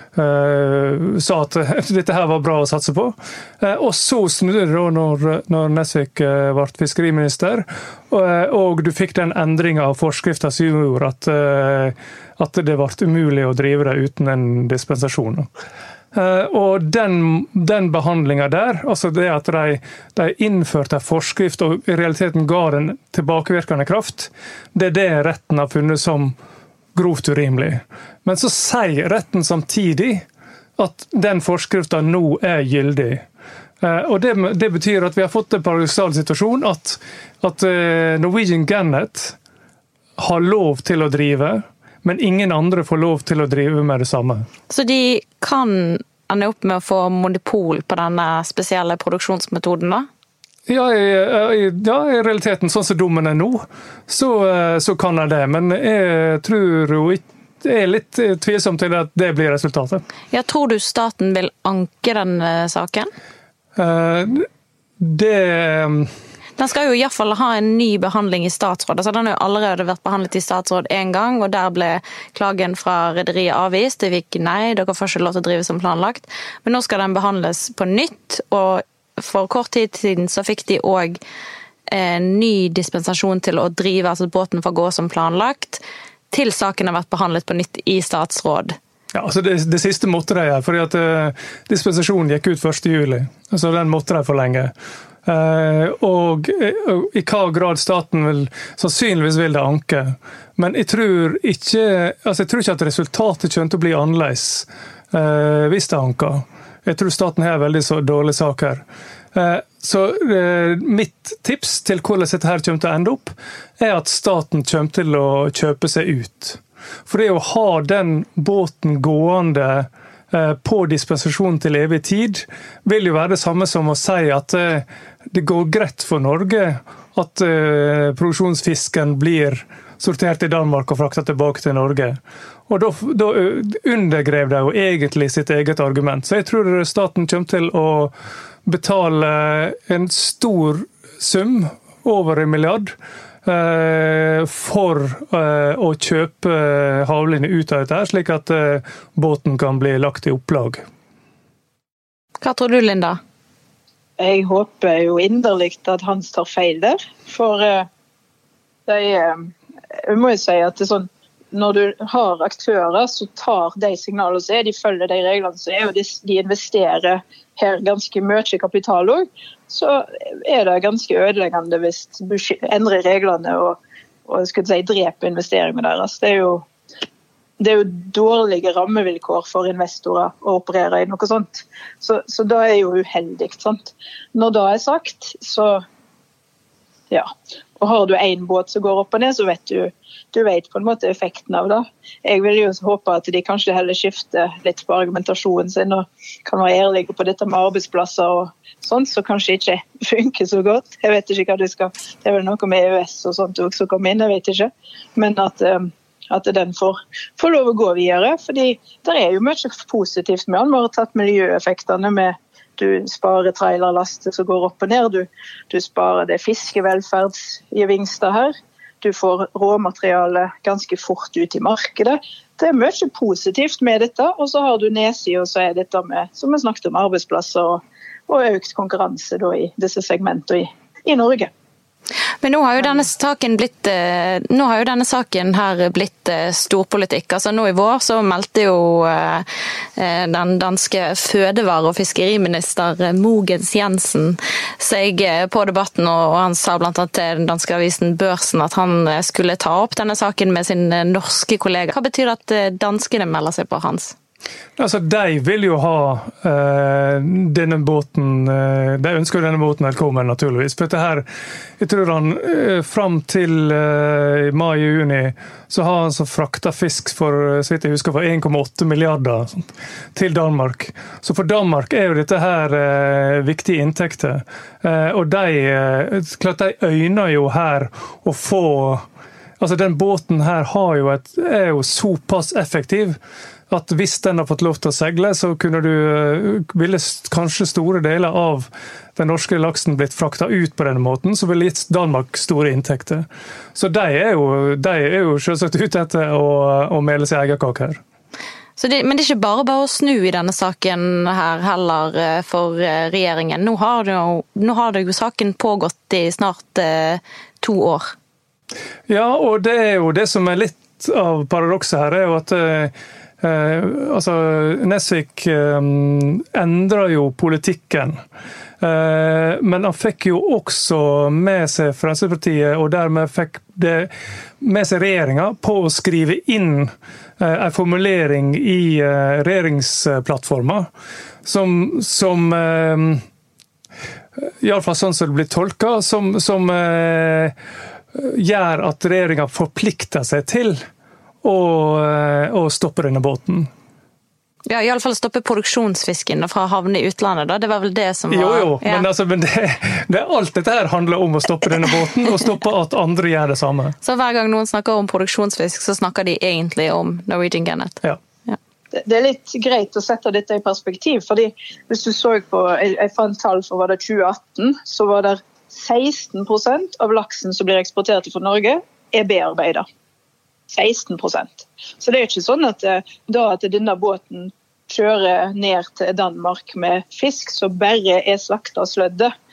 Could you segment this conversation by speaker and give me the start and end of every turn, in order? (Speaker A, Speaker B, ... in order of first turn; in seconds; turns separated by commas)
Speaker A: 0.1-15.5, Speaker A: 16.1-26.4, Speaker A: 26.9-30.2, Speaker A: 30.8-33.2, Speaker A: 33.8-39.4, Speaker A: 40.2-44.5, Speaker B: 44.7-50.1, Speaker A: 50.7-60.0, Speaker B: 60.3-63.1, Speaker A: 63.8-64.5, Speaker A: 65.0-66.1, Speaker B: 66.6-81.2, Speaker B: 81.9-88.8, Speaker A: 89.1-94.7, Speaker A: 95.3-138.1, Speaker A: 138.7-142.9, Speaker A: 143.4-150.8, Speaker B: 152.4-153.2, Speaker C: 154.2-157.9, Speaker C: 158.9-159.5, Speaker C: 160.1-176.7, Speaker C: 177.6-185.8, Speaker C: 187.1-231.5, Speaker B: 232.4-239.5, Speaker B: 240.0-254.2, Speaker A: 254.8-261.2, Speaker A: 261.8-279.0, Speaker A: 279.6-283.2, Speaker A: 283.7-298.0, Speaker B: 298.8-308.1, Speaker A: 309.1-318.2, Speaker A: 318.8-330.9, Speaker A: 331.4-333.2, Speaker A: 334.4-337.5, Speaker A: 338.1-340.8, Speaker A: 341.4-343.7, Speaker B: 344.7-349.1, Speaker A: 348.3-354.0, Speaker B: 354.0-358.6, Speaker C: 358.9-369.9, Speaker C: 370.7-379.3